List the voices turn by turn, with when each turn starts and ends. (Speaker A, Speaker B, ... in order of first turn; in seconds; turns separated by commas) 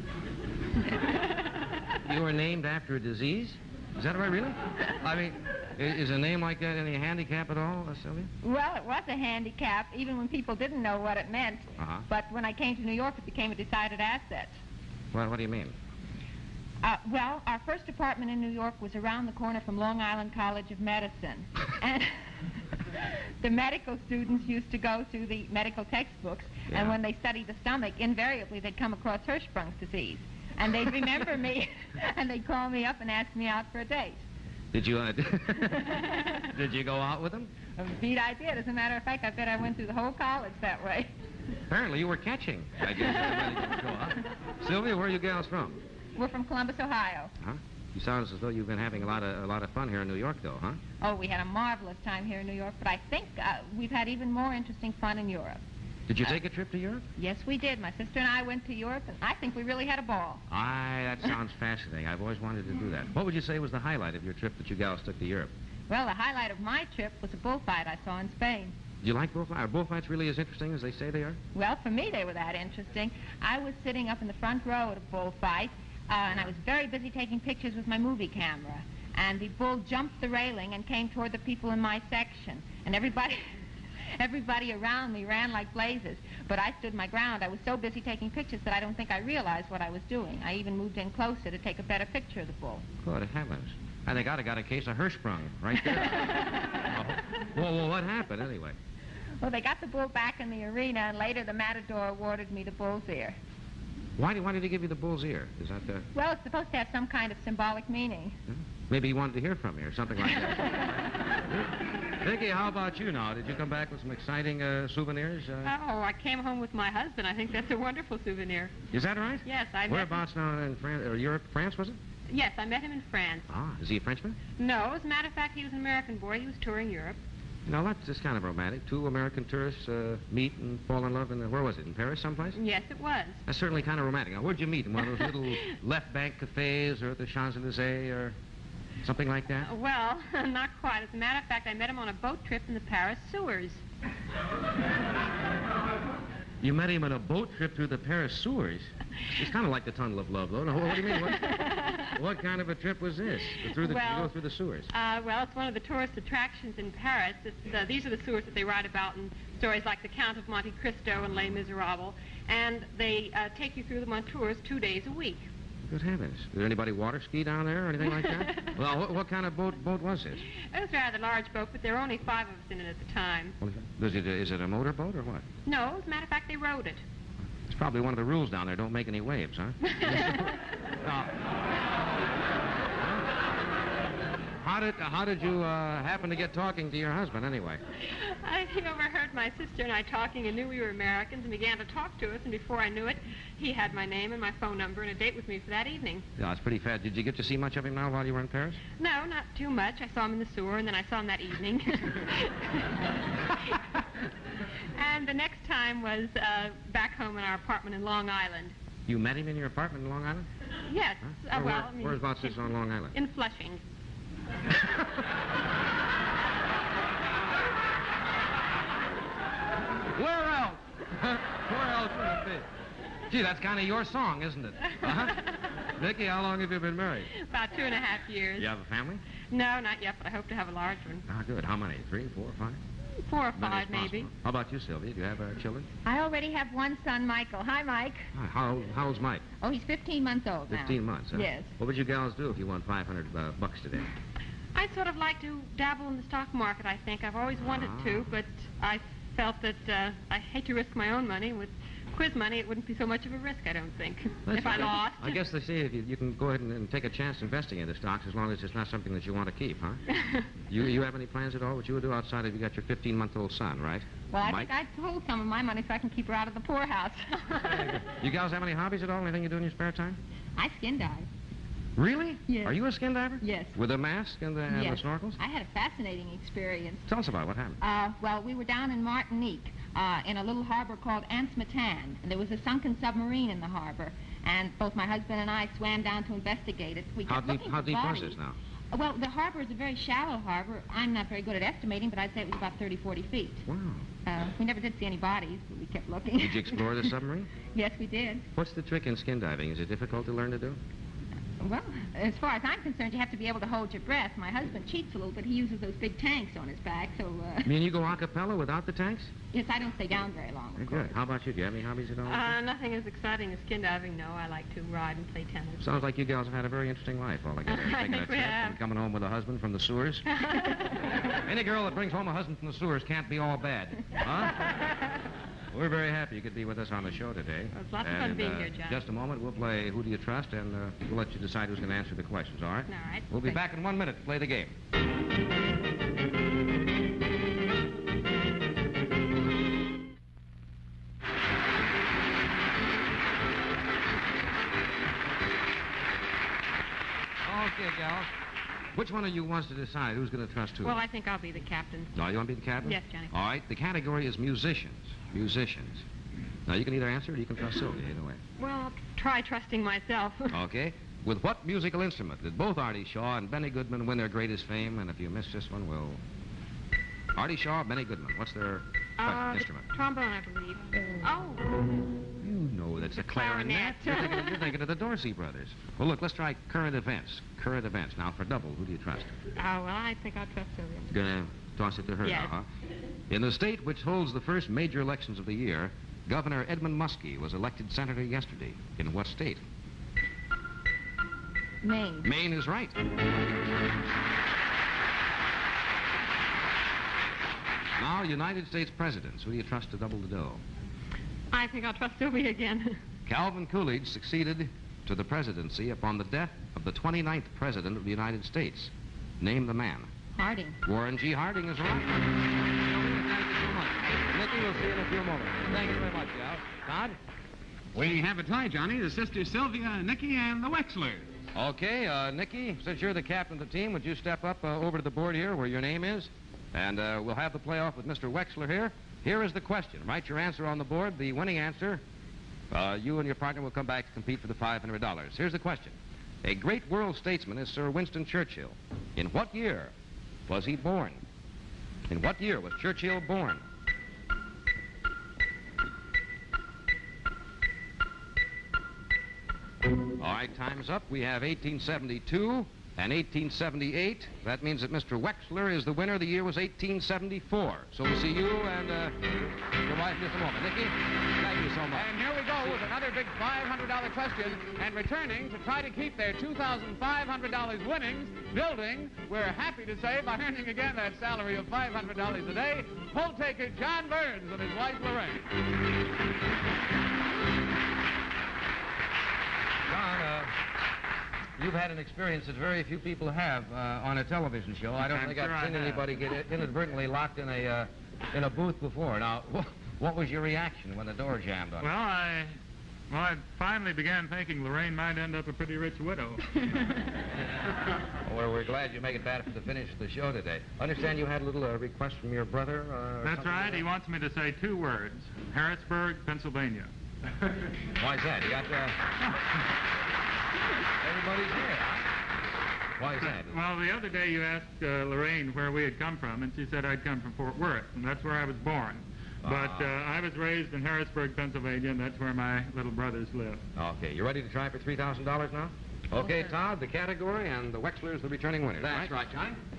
Speaker A: 2.0-8.3, Speaker B: 8.4-14.6, Speaker A: 11.8-12.1, Speaker A: 15.1-15.7, Speaker B: 16.8-34.2, Speaker A: 26.7-27.0, Speaker A: 34.7-37.5, Speaker B: 37.8-41.1, Speaker A: 41.7-45.8, Speaker B: 46.1-47.3, Speaker A: 47.4-50.8, Speaker B: 51.0-55.6, Speaker A: 56.1-57.0, Speaker B: 57.2-60.4, Speaker A: 60.5-65.5, Speaker B: 65.9-68.7, Speaker A: 69.0-71.4, Speaker B: 71.5-83.4, Speaker B: 84.2-92.8, Speaker A: 93.0-98.8, Speaker B: 99.4-103.4, Speaker A: 104.2-106.1, Speaker B: 106.1-108.4, Speaker A: 108.5-115.7, Speaker C: 115.6-118.7, Speaker A: 118.9-122.0, Speaker C: 119.4-120.2, Speaker C: 122.3-123.5, Speaker A: 123.5-124.4, Speaker C: 124.6-127.2, Speaker A: 127.7-132.6, Speaker C: 132.6-133.4, Speaker A: 133.5-138.4, Speaker A: 139.0-139.7, Speaker C: 139.6-143.8, Speaker A: 146.6-154.9, Speaker C: 151.2-152.1, Speaker C: 153.5-154.3, Speaker C: 154.9-165.4, Speaker A: 165.9-170.4, Speaker C: 168.0-168.7, Speaker C: 170.6-173.6, Speaker A: 173.6-175.4, Speaker C: 175.7-177.0, Speaker A: 177.7-181.3, Speaker C: 179.9-180.5, Speaker A: 183.0-183.3, Speaker A: 184.6-187.8, Speaker C: 188.1-196.2, Speaker A: 196.4-198.8, Speaker C: 199.0-202.9, Speaker C: 203.5-203.8, Speaker C: 204.9-208.7, Speaker A: 209.1-210.5, Speaker C: 210.9-213.8, Speaker A: 211.2-213.1, Speaker A: 214.7-215.2, Speaker A: 220.1-222.7, Speaker A: 223.3-227.3, Speaker C: 227.3-228.7, Speaker A: 228.6-229.2, Speaker C: 229.5-231.2, Speaker A: 231.3-232.8, Speaker C: 233.2-234.3, Speaker A: 233.6-235.9, Speaker B: 236.0-238.3, Speaker A: 238.3-239.4, Speaker B: 239.6-241.7, Speaker A: 240.7-244.1, Speaker C: 244.7-255.4, Speaker A: 247.6-248.3, Speaker A: 254.4-260.0, Speaker C: 260.1-260.5, Speaker A: 260.7-264.7, Speaker B: 264.3-267.6, Speaker A: 267.6-270.2, Speaker B: 270.6-271.3, Speaker A: 271.9-275.4, Speaker B: 272.5-272.8, Speaker B: 273.4-273.8, Speaker B: 274.7-277.1, Speaker A: 277.1-277.8, Speaker B: 277.8-288.4, Speaker A: 287.3-288.6, Speaker B: 288.9-293.6, Speaker A: 293.7-294.1, Speaker B: 294.2-297.1, Speaker A: 296.4-297.5, Speaker B: 297.7-298.4, Speaker A: 298.5-300.8, Speaker B: 301.6-307.7, Speaker A: 307.6-309.3, Speaker B: 309.5-311.2, Speaker A: 310.8-312.6, Speaker C: 312.2-316.0, Speaker A: 315.8-320.3, Speaker C: 317.6-318.8, Speaker C: 320.3-321.0, Speaker A: 321.4-324.7, Speaker A: 325.7-334.7, Speaker C: 327.7-329.1, Speaker C: 332.9-333.6, Speaker A: 347.4-348.3, Speaker A: 348.9-351.0, Speaker C: 350.8-352.1, Speaker A: 352.1-356.0, Speaker C: 352.8-353.3, Speaker A: 356.7-358.4, Speaker C: 358.6-360.5, Speaker A: 360.5-366.2, Speaker A: 367.3-369.9, Speaker C: 369.2-371.6, Speaker A: 372.4-379.3, Speaker C: 373.1-374.7, Speaker C: 379.6-381.1, Speaker A: 381.1-382.6, Speaker C: 382.2-382.5, Speaker A: 383.3-389.6, Speaker B: 391.8-392.3, Speaker A: 392.2-393.0, Speaker A: 398.0-400.6, Speaker C: 401.5-403.0, Speaker A: 403.2-410.1, Speaker B: 410.4-410.8, Speaker A: 410.8-412.2, Speaker A: 412.8-417.2, Speaker D: 417.9-421.3, Speaker A: 421.5-432.0, Speaker A: 432.7-439.9, Speaker A: 440.5-441.2, Speaker A: 442.1-443.6, Speaker A: 450.2-462.1, Speaker D: 461.9-475.5, Speaker A: 479.9-480.5, Speaker A: 481.6-491.9, Speaker E: 485.1-486.0, Speaker E: 491.8-492.5, Speaker E: 493.1-496.9, Speaker A: 498.2-503.9, Speaker E: 503.2-506.9, Speaker A: 507.9-509.0, Speaker A: 511.0-512.1, Speaker A: 513.0-513.6, Speaker E: 513.2-523.6, Speaker A: 519.4-520.0, Speaker A: 523.8-529.1, Speaker D: 528.8-529.6